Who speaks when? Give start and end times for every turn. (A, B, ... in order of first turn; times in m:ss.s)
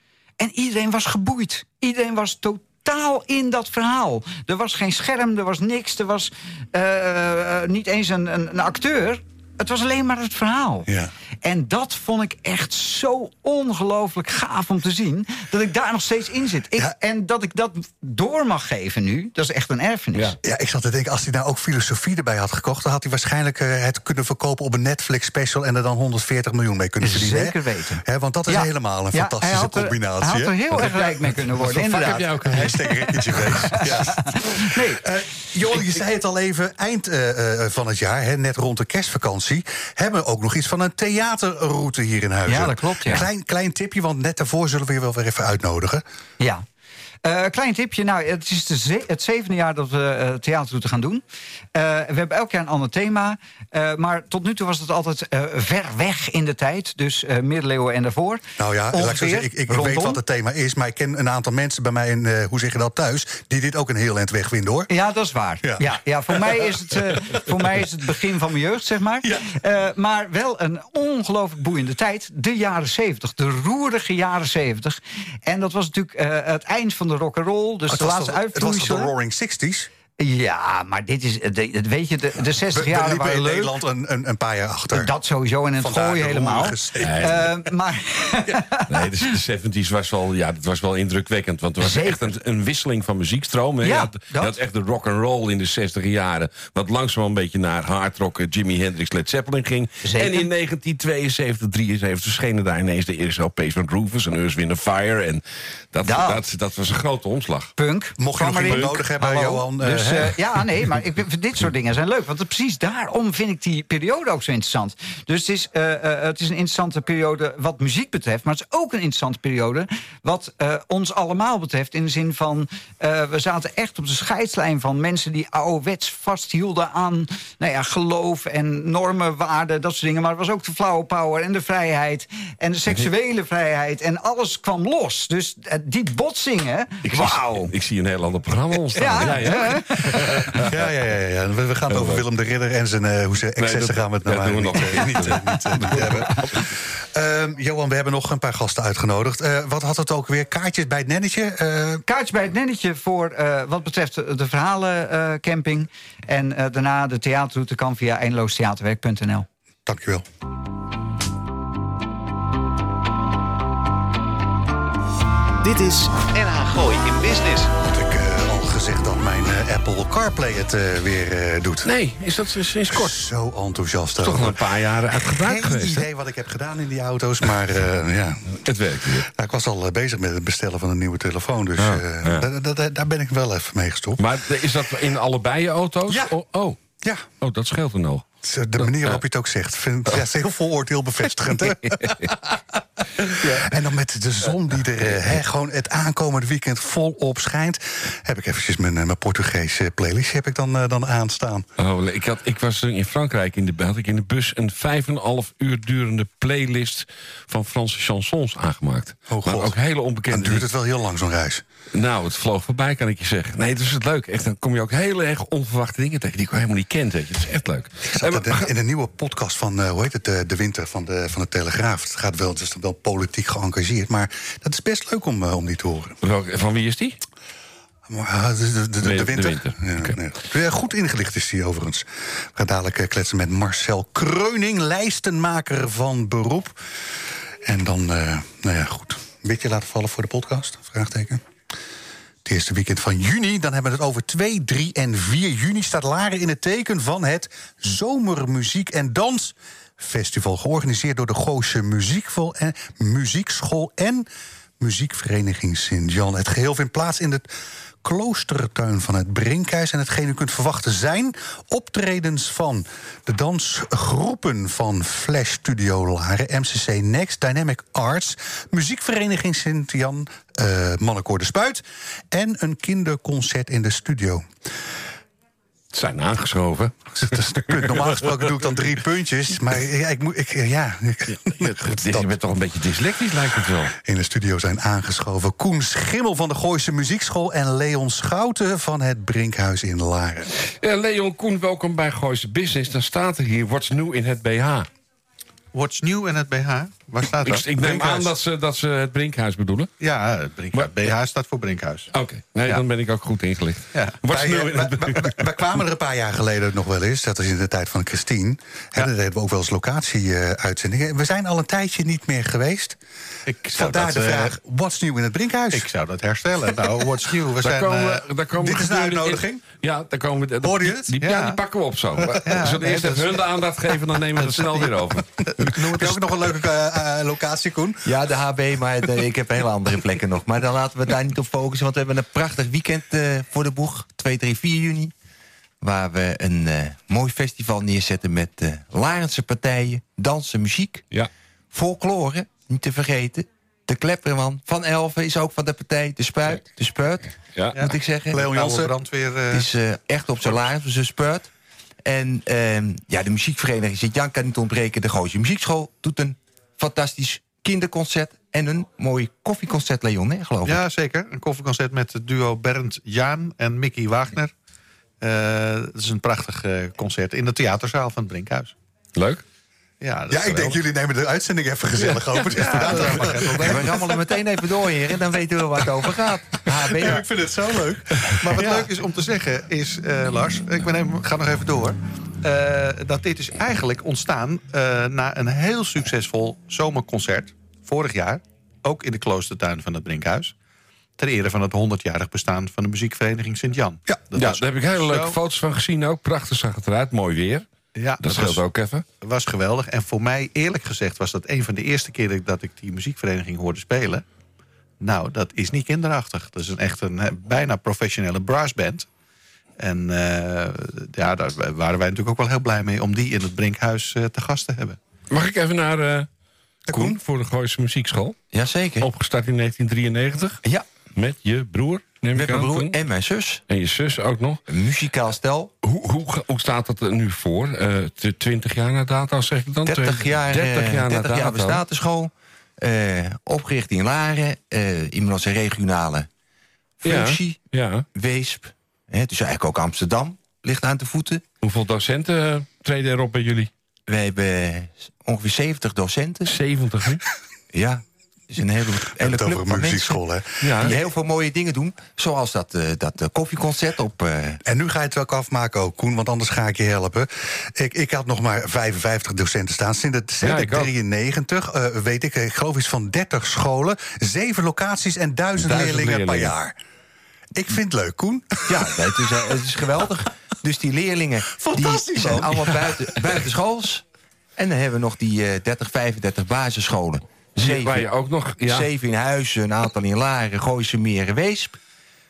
0:00.4-0:10.9 A
0:10.9-0:11.1 B
0:11.4-0:20.4 A
0:20.4-0:31.8 B
0:27.0-0:35.0 A
0:30.8-0:32.8 C
0:32.4-0:46.0 B
0:33.4-0:33.8 C
0:42.5-0:43.3 A
0:47.2-0:51.2 A
0:51.8-1:00.2 A
0:58.6-1:04.9 B
1:04.9-1:19.1 A
1:05.6-1:06.7 B
1:17.9-1:19.9 B
1:20.2-1:23.8 A
1:22.4-1:25.1 B
1:24.9-1:29.2 A
1:25.8-1:27.5 B
1:27.0-1:27.5 C
1:28.5-1:47.7 C
1:31.8-1:32.3 A
1:33.8-1:34.6 A
1:40.0-1:40.5 A
1:46.0-1:46.4 A
1:47.8-2:17.7 A
1:48.2-1:50.6 B
1:48.6-1:49.0 C
2:17.0-2:20.7 C
2:19.0-2:20.6 A
2:20.6-2:32.0 B
2:21.9-2:22.2 C
2:23.6-2:26.7 C
2:32.1-2:39.5 A
2:39.9-2:40.2 B
2:45.6-2:47.7 D
2:47.8-2:51.9 B
2:51.8-2:53.2 C
2:52.9-3:04.2 B
2:54.2-2:56.1 C
2:58.5-2:59.3 C
3:01.8-3:02.5 C
3:04.2-3:06.8 C
3:06.1-3:06.3 B
3:07.0-3:07.3 B
3:07.4-3:08.2 C
3:08.4-3:21.7 B
3:08.8-3:09.2 C
3:11.6-3:12.4 C
3:13.2-3:13.8 C
3:21.8-3:30.7 C
3:29.3-3:29.8 B
3:30.3-3:31.6 B
3:31.9-3:38.7 C
3:38.0-3:46.2 B
3:46.2-3:47.2 C
3:48.1-3:56.8 B
3:49.0-3:50.2 C
3:57.6-4:01.4 B
4:02.4-4:14.3 B
4:14.8-4:17.5 B
4:18.0-4:34.5 B
4:35.9-4:38.4 C
4:37.1-4:42.3 B
4:41.5-4:43.9 C
4:43.9-4:50.5 B
4:50.7-4:54.9 C
4:55.7-4:58.3 E
4:57.4-4:59.9 C
5:00.0-5:02.1 E
5:00.7-5:01.1 C
5:02.1-5:05.4 C
5:03.9-5:04.2 E
5:04.3-5:13.0 B
5:13.5-5:14.6 E
5:13.7-5:15.9 B
5:15.7-5:18.2 E
5:17.6-5:25.8 C
5:18.6-5:19.6 B
5:20.6-5:21.2 B
5:21.2-5:21.6 E
5:22.2-5:26.3 E
5:25.8-5:28.1 B
5:28.0-5:35.1 F
5:35.8-5:41.0 F
5:41.7-5:48.5 F
5:47.5-5:47.8 C
5:47.7-5:49.7 E
5:48.3-5:48.9 B
5:49.5-5:51.5 F
5:52.0-6:00.8 F
6:00.6-6:04.5 E
6:05.2-6:08.8 E
6:09.2-6:09.4 C
6:10.0-6:10.8 E
6:10.3-6:14.0 B
6:12.0-6:12.7 C
6:12.5-6:13.8 E
6:12.7-6:17.2 F
6:16.7-6:18.9 B
6:18.4-6:30.5 E
6:31.2-6:35.4 E
6:34.3-6:37.7 C
6:38.0-6:38.6 E
6:38.2-6:39.0 C
6:39.2-6:44.2 E
6:45.0-6:49.1 E
6:49.8-6:55.0 E
6:55.3-6:56.3 C
6:56.9-6:57.2 B
6:56.9-6:58.4 C
6:58.5-6:59.1 F
6:59.0-7:00.6 C
7:01.1-7:03.0 C
7:02.3-7:03.6 F
7:03.7-7:04.6 C
7:04.7-7:05.7 F
7:05.8-7:11.8 C
7:09.9-7:16.3 F
7:17.0-7:17.6 F
7:17.0-7:18.1 C
7:18.2-7:21.4 F
7:21.6-7:23.7 C
7:24.1-7:26.6 F
7:26.5-7:27.2 C
7:27.7-7:30.2 F
7:29.2-7:30.9 B
7:30.6-7:30.9 C
7:30.8-7:34.6 F
7:34.6-7:46.8 B
7:40.4-7:40.9 C
7:45.6-7:46.6 C
7:47.5-7:49.4 B
7:48.7-7:54.0 F
7:51.5-7:53.4 B
7:54.6-7:58.1 F
7:57.6-7:58.9 C
7:58.6-8:01.8 F